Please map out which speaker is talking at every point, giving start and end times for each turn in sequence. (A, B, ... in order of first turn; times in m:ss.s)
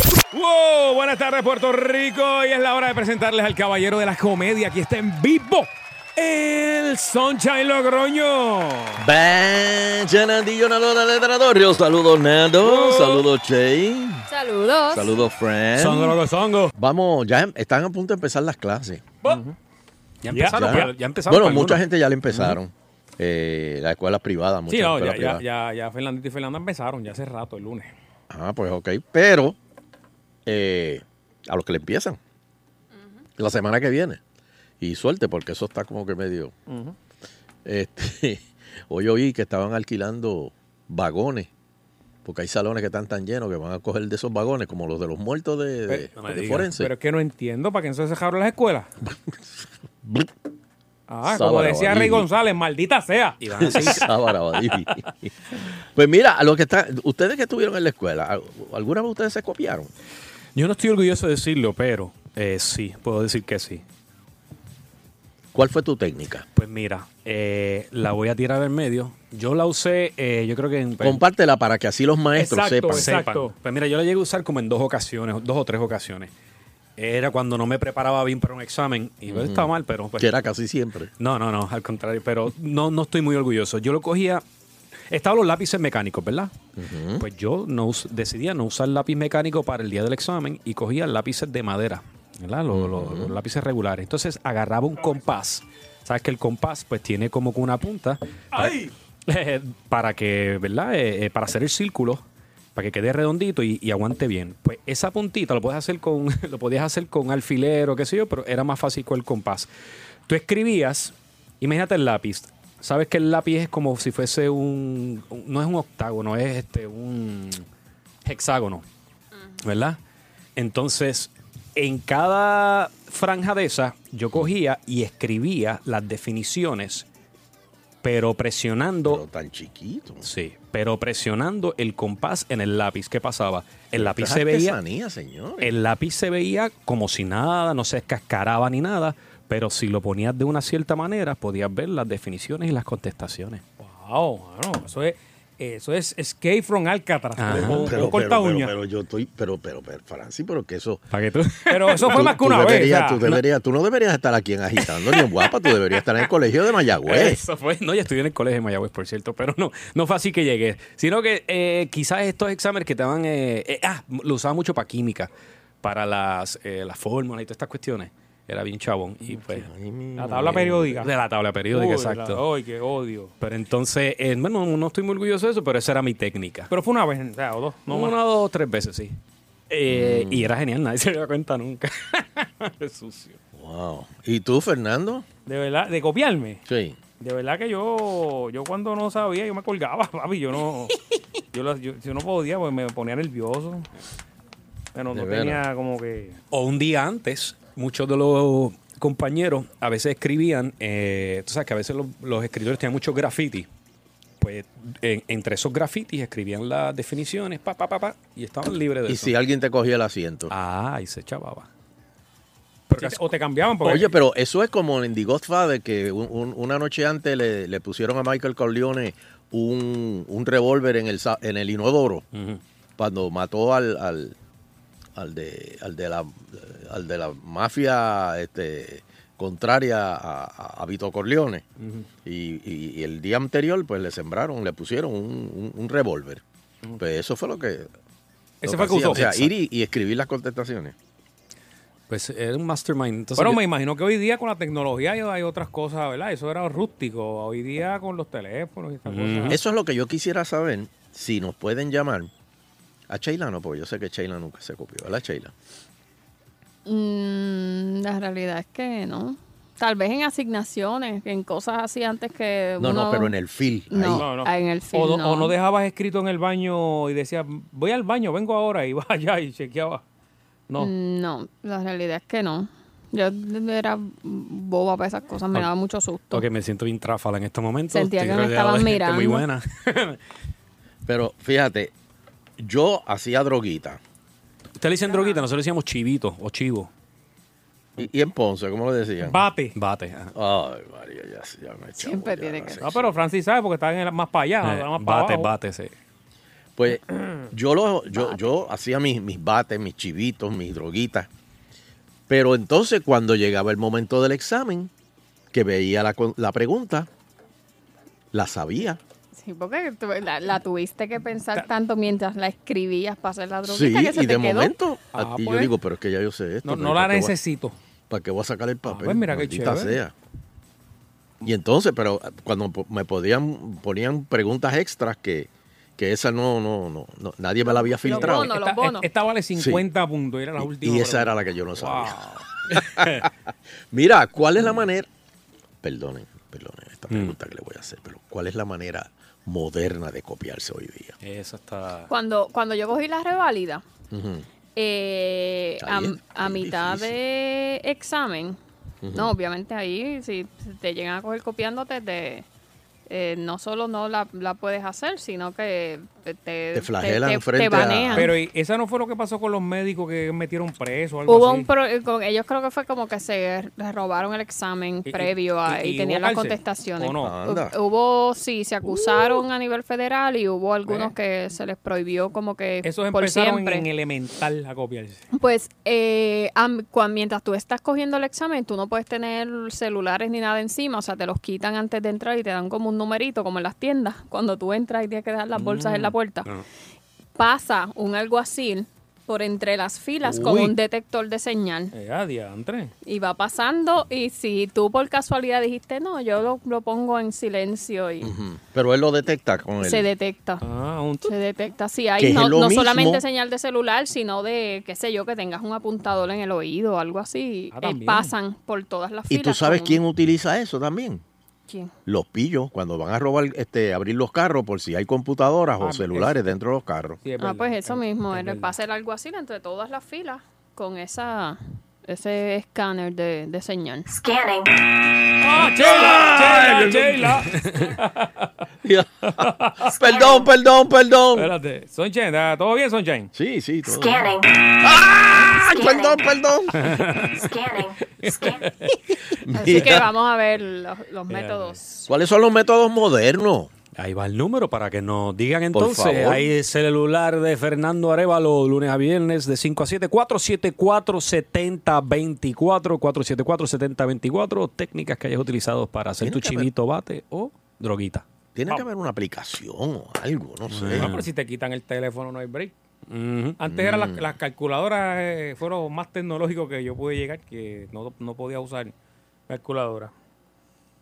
0:00.3-0:09.0 A
0:09.0-0:14.2 B
0:12.6-0:13.2 A
0:14.3-0:15.1 C
0:14.9-0:16.2 B
0:15.8-0:16.7 D
0:16.8-0:19.0 B
0:19.2-0:19.5 A
0:20.2-0:21.8 D
0:20.3-0:20.8 A
0:20.5-0:25.4 B
0:24.7-0:27.9 A
0:28.3-0:29.6 B
0:30.4-0:32.2 B
0:33.4-0:34.2 B
0:34.8-0:36.5 B
0:36.7-0:37.0 A
0:37.6-0:41.5 B
0:42.2-0:46.9 B
0:46.2-0:46.7 D
0:46.8-0:48.9 A
0:49.0-0:50.3 B
0:51.1-0:54.1 A
0:51.3-0:52.3 B
0:53.4-0:54.1 D
0:53.6-0:55.3 B
0:55.9-0:59.9 B
1:00.5-1:03.8 D
1:05.5-1:06.4 B
1:06.5-1:11.2 D
1:11.0-1:13.1 B
1:12.4-1:13.5 A
1:12.9-1:16.3 D
1:17.0-1:20.3 D
1:19.3-1:21.1 B
1:21.2-1:24.4 D
1:25.1-1:26.5 D
1:26.8-1:27.2 B
1:27.2-1:42.2 D
1:32.7-1:33.4 B
1:38.5-1:38.9 A
1:42.7-1:49.7 D
1:50.3-1:57.6 D
1:58.2-1:58.8 D
1:59.6-2:00.0 D
2:00.6-2:07.0 D
2:08.0-2:09.2 D
2:09.0-2:10.2 B
2:10.2-2:14.8 D
2:13.9-2:15.8 B
2:15.6-2:23.6 D
2:23.8-2:28.7 A
2:27.4-2:28.0 D
2:27.5-2:31.0 B
2:31.1-2:32.3 D
2:31.7-2:33.4 A
2:32.0-2:37.4 B
2:34.9-2:35.3 D
2:37.0-2:45.3 D
2:45.8-2:49.7 D
2:49.3-2:51.0 B
2:50.2-2:51.1 A
2:50.4-2:52.4 D
2:51.7-2:53.3 A
2:53.4-2:56.7 D
2:56.7-2:58.2 A
2:57.9-2:59.2 D
2:59.7-3:03.4 D
2:59.9-3:00.5 B
3:03.5-3:05.2 B
3:05.4-3:06.6 A
3:06.6-3:07.0 B
3:07.2-3:11.0 A
3:11.5-3:13.9 A
3:14.9-3:16.4 A
3:15.1-3:15.6 B
3:16.5-3:23.7 D
3:24.4-3:29.3 D
3:29.1-3:30.5 B
3:30.5-3:31.7 D
3:32.9-3:33.2 D
3:33.0-3:34.1 A
3:33.8-3:42.2 B
3:42.3-3:42.6 D
3:43.0-3:44.4 B
3:45.2-3:51.6 B
3:51.8-3:52.0 D
3:52.2-3:56.4 B
3:57.0-3:57.9 B
3:58.6-3:59.3 A
3:58.6-4:00.9 B
4:02.1-4:03.6 D
4:03.4-4:09.6 A
4:09.1-4:09.6 D
4:09.5-4:12.3 B
4:13.1-4:15.5 B
4:16.8-4:23.3 C
4:22.8-4:24.3 B
4:23.9-4:25.5 C
4:24.1-4:30.0 A
4:30.8-4:36.4 C
4:36.3-4:40.2 D
4:37.9-4:39.4 C
4:41.0-4:41.9 B
4:42.6-4:44.0 B
4:44.8-4:46.9 D
4:45.1-4:45.4 C
4:48.0-4:49.4 B
4:49.2-4:49.7 A
4:49.8-4:50.3 D
4:50.3-4:53.2 B
4:52.0-4:52.8 C
4:52.8-4:55.5 A
4:54.6-4:55.9 D
4:56.8-5:01.3 B
5:02.3-5:04.9 B
5:05.5-5:07.1 B
5:08.3-5:09.0 B
5:09.3-5:14.7 C
5:13.6-5:17.3 B
5:15.1-5:15.7 A
5:16.6-5:17.8 A
5:18.1-5:20.1 B
5:18.8-5:20.0 A
5:21.4-5:28.5 B
5:27.9-5:29.1 C
5:28.1-5:32.2 A
5:29.6-5:29.8 B
5:30.6-5:33.3 B
5:33.9-5:35.1 B
5:35.8-5:41.2 B
5:37.1-5:37.4 D
5:41.2-5:42.1 D
5:42.1-5:43.8 C
5:44.1-5:44.4 B
5:44.8-5:48.6 C
5:45.8-5:47.1 B
5:49.0-5:49.3 B
5:49.1-5:52.4 C
5:53.1-5:58.3 C
5:56.7-5:58.3 B
5:58.1-6:01.7 A
6:01.3-6:13.8 C
6:05.0-6:07.3 A
6:07.2-6:07.7 B
6:09.1-6:09.4 A
6:10.8-6:11.1 A
6:12.8-6:15.2 A
6:15.3-6:26.5 C
6:25.6-6:26.6 D
6:27.4-6:31.9 C
6:30.3-6:30.7 B
6:31.9-6:32.9 A
6:33.0-6:38.3 C
6:38.2-6:40.1 B
6:39.8-6:40.6 C
6:40.6-6:41.3 A
6:41.2-6:50.0 C
6:42.2-6:43.2 B
6:47.7-6:48.3 A
6:49.3-6:51.2 B
6:52.0-6:57.2 B
6:55.8-6:56.4 A
6:57.2-6:58.7 A
6:57.4-7:04.1 C
7:04.1-7:04.7 E
7:05.4-7:08.5 A
7:05.8-7:07.2 B
7:08.8-7:11.5 B
7:09.4-7:09.9 A
7:10.0-7:10.5 E
7:11.3-7:13.3 A
7:13.3-7:16.8 B
7:13.8-7:14.5 E
7:15.5-7:16.2 E
7:16.8-7:17.4 D
7:17.4-7:18.6 E
7:18.2-7:18.9 A
7:19.4-7:20.0 B
7:19.5-7:22.1 C
7:21.3-7:21.8 A
7:22.1-7:23.7 B
7:24.0-7:38.2 D
7:25.7-7:26.5 B
7:36.2-7:36.7 B
7:38.5-7:41.1 B
7:40.7-7:41.3 D
7:40.9-7:42.7 A
7:43.1-7:43.6 D
7:43.6-7:48.9 A
7:43.7-7:44.3 B
7:49.5-7:50.1 A